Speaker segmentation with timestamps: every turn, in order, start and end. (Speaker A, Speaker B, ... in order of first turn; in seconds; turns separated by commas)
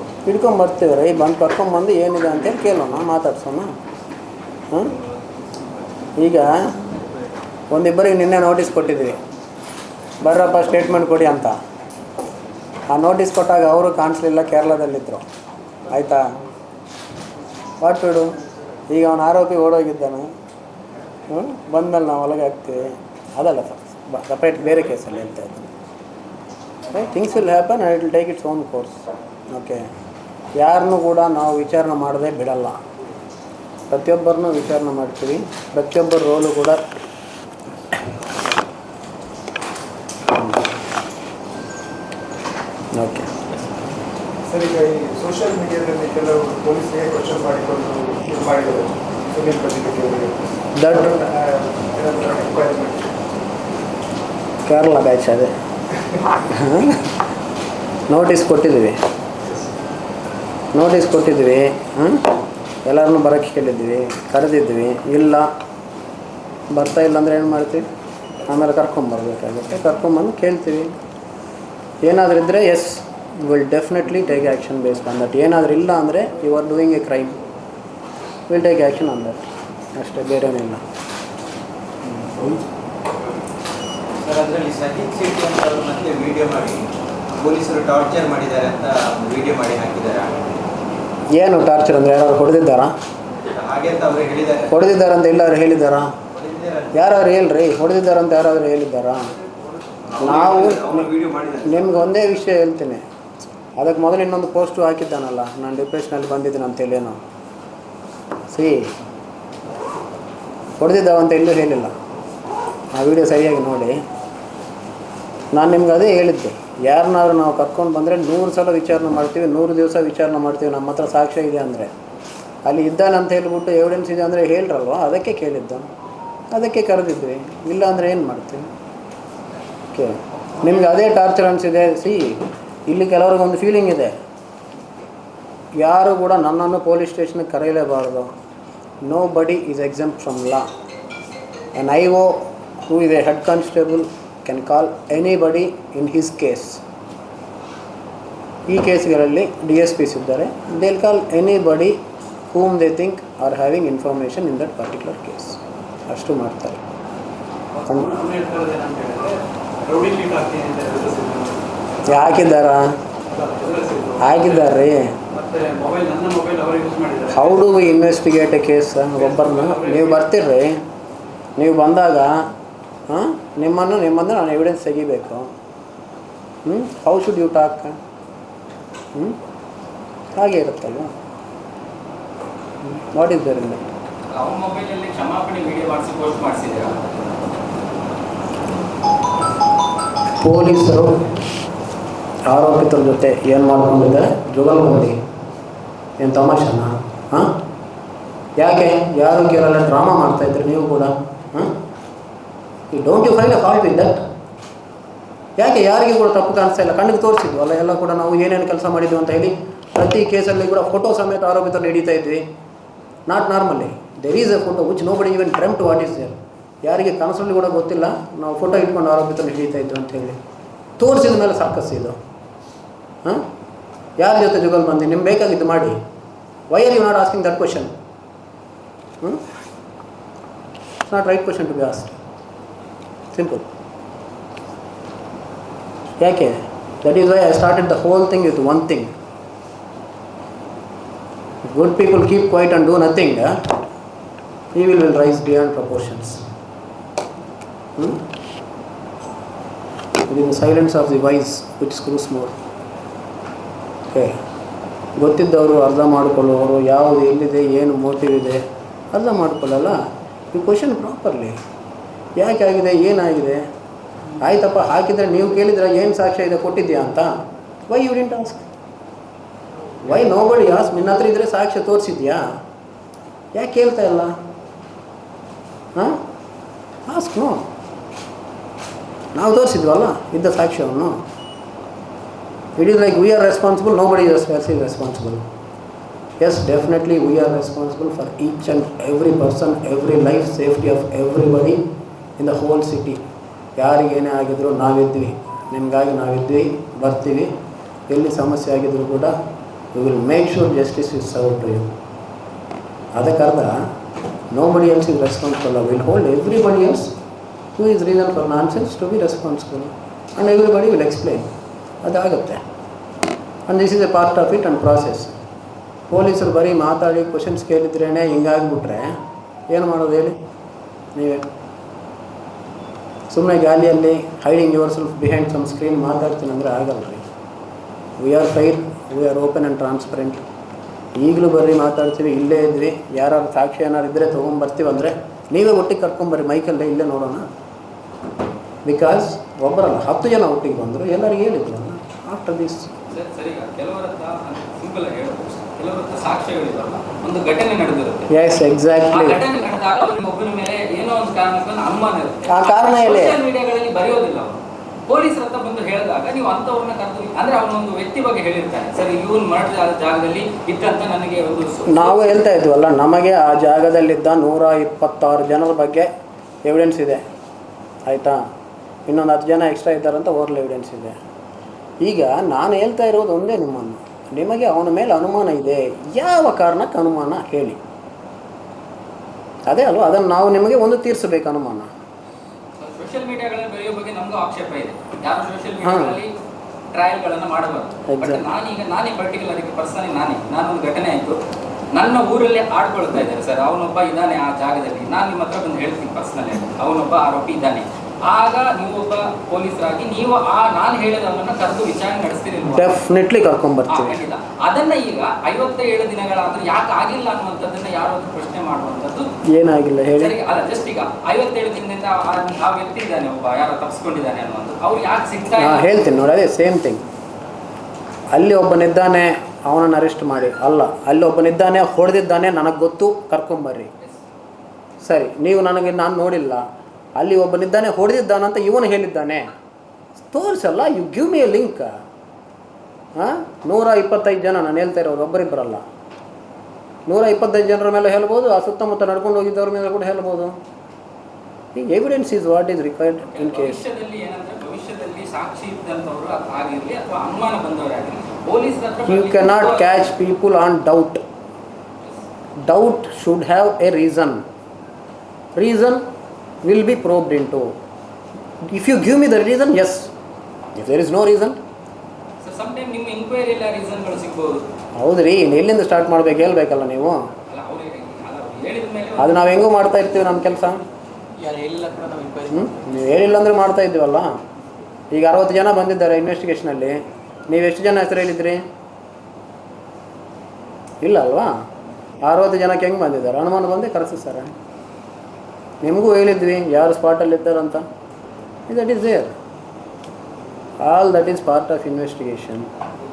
Speaker A: 0.2-3.7, Speaker A: 4.7-5.0, Speaker A: 6.2-6.7, Speaker A: 7.7-9.2, Speaker A: 10.2-11.6, Speaker A: 12.9-15.2, Speaker A: 15.9-16.3, Speaker A: 17.8-20.3, Speaker A: 21.3-25.7, Speaker A: 26.9-29.9, Speaker A: 30.5-32.8, Speaker A: 33.9-36.8, Speaker A: 40.3-40.7, Speaker A: 43.0-43.3, Speaker B: 44.5-53.1, Speaker A: 50.8-51.1, Speaker A: 54.6-55.5, Speaker A: 56.5-57.1, Speaker A: 58.1-59.0, Speaker A: 60.7-65.5, Speaker A: 66.7-67.9, Speaker A: 68.4-71.0, Speaker A: 72.0-77.4, Speaker A: 78.5-80.8, Speaker A: 82.1-82.6, Speaker C: 84.2-90.4, Speaker A: 91.3-92.9, Speaker C: 93.5-94.7, Speaker A: 94.7-96.1, Speaker C: 96.3-96.9, Speaker A: 96.9-99.3, Speaker C: 100.1-101.7, Speaker A: 100.2-101.1, Speaker A: 101.6-103.0, Speaker A: 103.8-107.2, Speaker A: 108.5-108.9, Speaker A: 110.8-111.9, Speaker A: 112.9-114.0, Speaker A: 115.5-121.9, Speaker A: 122.6-125.9, Speaker A: 126.5-128.7, Speaker A: 129.9-134.2, Speaker A: 135.8-138.3, Speaker A: 139.0-140.7, Speaker A: 141.7-146.8, Speaker A: 148.7-156.8, Speaker D: 157.8-161.7, Speaker A: 157.8-158.3, Speaker A: 162.0-163.0, Speaker D: 163.3-164.4, Speaker A: 164.2-165.2, Speaker D: 165.3-167.5, Speaker A: 167.3-170.8, Speaker D: 169.3-170.1, Speaker A: 171.6-172.4, Speaker A: 173.1-175.5, Speaker A: 176.6-177.9, Speaker A: 179.1-179.4, Speaker A: 180.3-181.1, Speaker A: 182.8-183.8, Speaker E: 184.3-187.4, Speaker A: 190.4-191.3, Speaker A: 192.4-195.2, Speaker A: 196.2-197.6, Speaker A: 198.6-201.8, Speaker A: 202.9-204.2, Speaker A: 205.6-212.5, Speaker A: 213.3-220.4, Speaker A: 221.0-222.2, Speaker A: 223.2-223.5, Speaker A: 224.2-226.0, Speaker A: 226.7-227.9, Speaker A: 231.1-232.2, Speaker A: 233.3-233.7, Speaker A: 236.2-239.1, Speaker A: 241.6-243.6, Speaker A: 244.7-246.4, Speaker A: 247.9-248.2, Speaker A: 250.3-252.6, Speaker A: 254.1-254.4, Speaker A: 255.2-260.0, Speaker A: 260.5-261.6, Speaker A: 262.4-263.6, Speaker A: 264.4-267.3, Speaker A: 267.9-268.7, Speaker A: 270.0-272.6, Speaker A: 273.5-274.4, Speaker A: 275.9-276.2, Speaker A: 277.1-277.7, Speaker A: 279.3-281.2, Speaker A: 282.8-285.4, Speaker A: 286.4-291.8, Speaker A: 292.4-293.2, Speaker A: 293.8-297.5, Speaker A: 298.1-299.3, Speaker A: 299.9-301.9, Speaker A: 303.1-303.9, Speaker A: 304.5-307.1, Speaker A: 307.7-312.6, Speaker A: 313.7-315.4, Speaker A: 316.1-320.4, Speaker A: 321.1-321.5, Speaker A: 323.3-327.3, Speaker A: 328.2-330.4, Speaker A: 331.1-337.5, Speaker A: 338.8-342.9, Speaker E: 343.1-348.3, Speaker A: 348.3-349.4, Speaker E: 349.1-362.5, Speaker A: 352.5-353.4, Speaker A: 361.9-366.1, Speaker A: 366.6-367.2, Speaker A: 368.1-368.4, Speaker A: 369.1-371.2, Speaker A: 372.0-377.8, Speaker A: 379.7-381.9, Speaker E: 382.8-386.3, Speaker A: 385.8-386.2, Speaker E: 386.9-391.4, Speaker A: 388.1-388.4, Speaker E: 391.9-402.9, Speaker A: 402.7-404.2, Speaker E: 403.9-409.4, Speaker A: 409.4-410.4, Speaker E: 410.2-416.1, Speaker A: 415.5-417.0, Speaker A: 418.3-423.9, Speaker A: 425.0-426.6, Speaker A: 427.1-429.5, Speaker A: 430.2-431.9, Speaker A: 433.1-435.8, Speaker A: 437.1-440.6, Speaker A: 441.7-443.8, Speaker E: 443.3-450.1, Speaker A: 449.1-451.2, Speaker A: 452.6-454.4, Speaker A: 455.5-456.1, Speaker A: 456.6-457.7, Speaker A: 458.6-460.1, Speaker A: 460.8-461.6, Speaker E: 462.4-464.7, Speaker A: 464.9-467.2, Speaker E: 467.5-469.6, Speaker A: 469.2-470.8, Speaker D: 471.4-472.6, Speaker A: 472.5-474.3, Speaker A: 475.1-478.6, Speaker A: 481.0-481.5, Speaker A: 482.2-484.5, Speaker A: 485.8-487.9, Speaker A: 488.7-489.3, Speaker A: 490.8-492.7